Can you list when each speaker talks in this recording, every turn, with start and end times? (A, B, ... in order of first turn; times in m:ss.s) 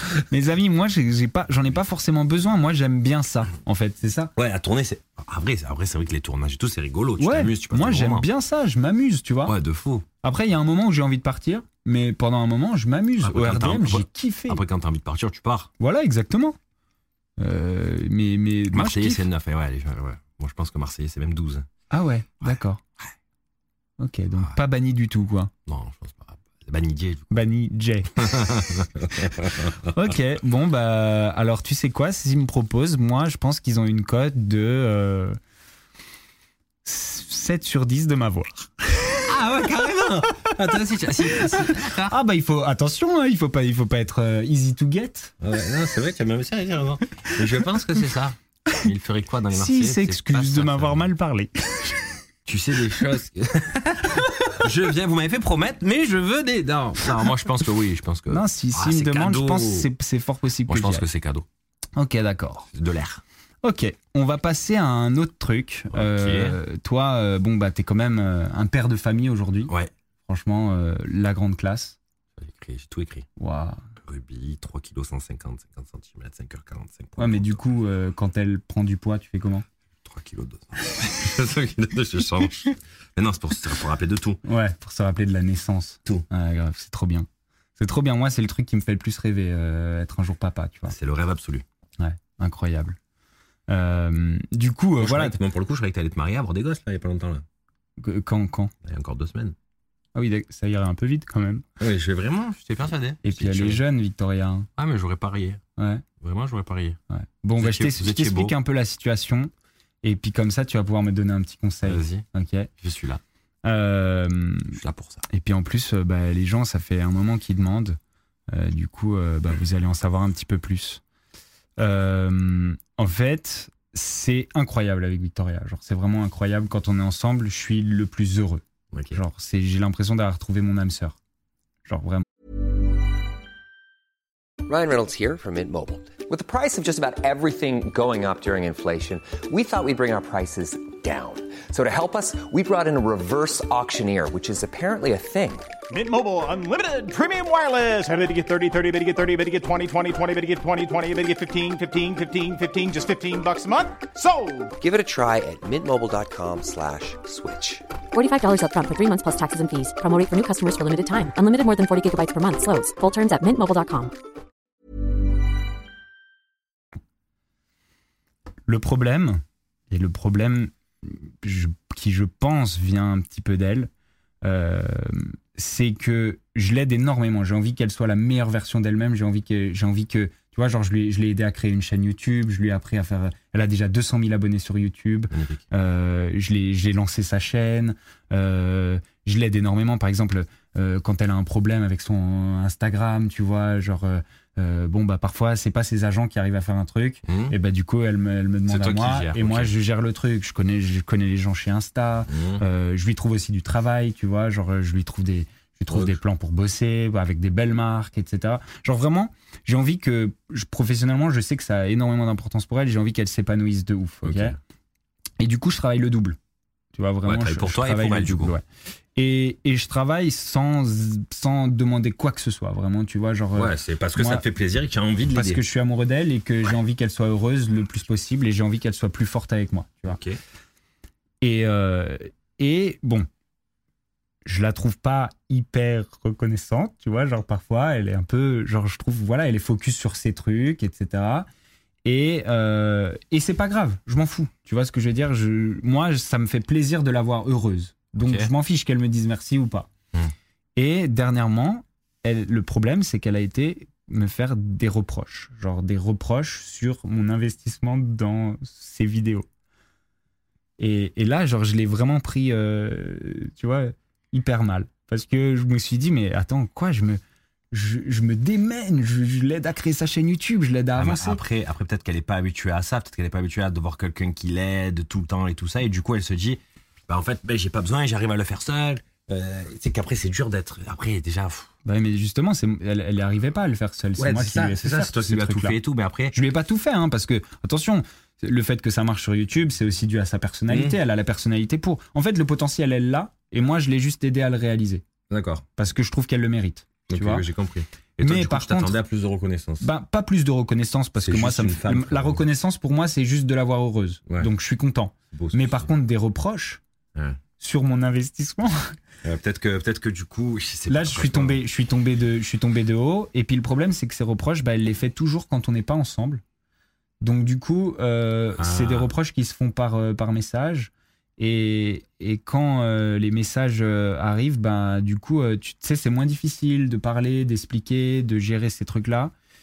0:00.3-0:04.3 A
0:04.4-0:08.3 B
0:07.2-0:09.6 A
0:09.5-0:10.1 B
0:10.2-0:14.6 A
0:13.2-0:15.7 B
0:15.8-0:16.6 A
0:17.4-0:19.3 A
0:18.7-0:21.7 B
0:21.9-0:22.8 A
0:22.4-0:23.0 B
0:24.0-0:25.5 A
0:25.7-0:27.4 B
0:27.3-0:28.3 A
0:28.2-0:30.2 B
0:29.9-0:35.4 A
0:36.8-0:39.3 A
0:39.3-0:42.2 B
0:41.3-0:45.3 A
0:45.4-0:51.1 B
0:49.5-0:52.1 A
0:52.5-0:59.9 B
0:58.3-1:01.1 A
1:00.7-1:01.5 B
1:02.0-1:02.7 A
1:02.7-1:03.2 B
1:03.6-1:09.7 A
1:05.9-1:06.6 B
1:10.3-1:12.0 A
1:12.4-1:13.3 B
1:13.4-1:13.8 A
1:14.0-1:17.6 B
1:17.2-1:19.7 A
1:20.0-1:24.4 B
1:24.4-1:31.0 A
1:30.9-1:31.6 B
1:32.0-1:33.0 A
1:33.7-1:35.4 A
1:35.0-1:37.4 B
1:38.0-1:38.7 A
1:38.8-1:39.6 B
1:40.2-1:41.6 A
1:41.8-1:43.8 B
1:43.2-1:44.7 A
1:44.8-1:45.6 B
1:45.8-1:46.0 A
1:46.2-1:47.0 B
1:47.1-1:49.5 A
1:47.6-1:48.6 B
1:50.0-1:52.7 A
1:51.8-1:52.3 B
1:52.8-1:53.2 B
1:53.6-1:54.8 A
1:54.8-1:55.2 B
1:55.3-1:58.0 A
1:58.5-2:01.0 A
2:01.8-2:11.2 A
2:08.9-2:09.2 B
2:11.9-2:12.2 A
2:14.7-2:25.7 C
2:25.9-2:34.7 D
2:34.8-2:37.8 C
2:38.1-2:44.1 E
2:48.7-2:53.9 A
2:54.4-3:34.6 A
3:05.3-3:05.6 B
3:17.3-3:17.6 B
3:18.7-3:19.7 B
3:22.3-3:22.6 B
3:25.9-3:26.2 B
3:34.2-3:34.6 B
3:35.4-3:36.4 A
3:37.0-3:38.6 A
3:37.2-3:38.6 B
3:39.2-3:44.4 A
3:43.6-3:45.6 B
3:45.3-3:50.2 A
3:50.1-3:50.4 B
3:51.4-3:53.3 A
3:54.4-4:01.5 A
4:02.0-4:09.9 A
4:08.2-4:08.5 B
4:10.8-4:19.5 A
4:20.8-4:27.2 A
4:27.7-4:31.4 A
4:31.0-4:41.7 B
4:41.8-4:45.8 A
4:44.2-4:46.4 B
4:46.3-4:55.0 A
4:50.7-4:51.0 B
4:55.3-4:55.6 B
4:55.8-4:57.4 A
4:57.1-4:59.9 B
4:58.2-4:59.0 A
4:59.8-5:06.8 A
5:01.2-5:02.4 B
5:05.3-5:05.9 B
5:07.2-5:07.4 B
5:07.6-5:08.9 A
5:09.2-5:11.6 B
5:10.9-5:16.4 A
5:17.2-5:29.3 A
5:18.6-5:19.1 B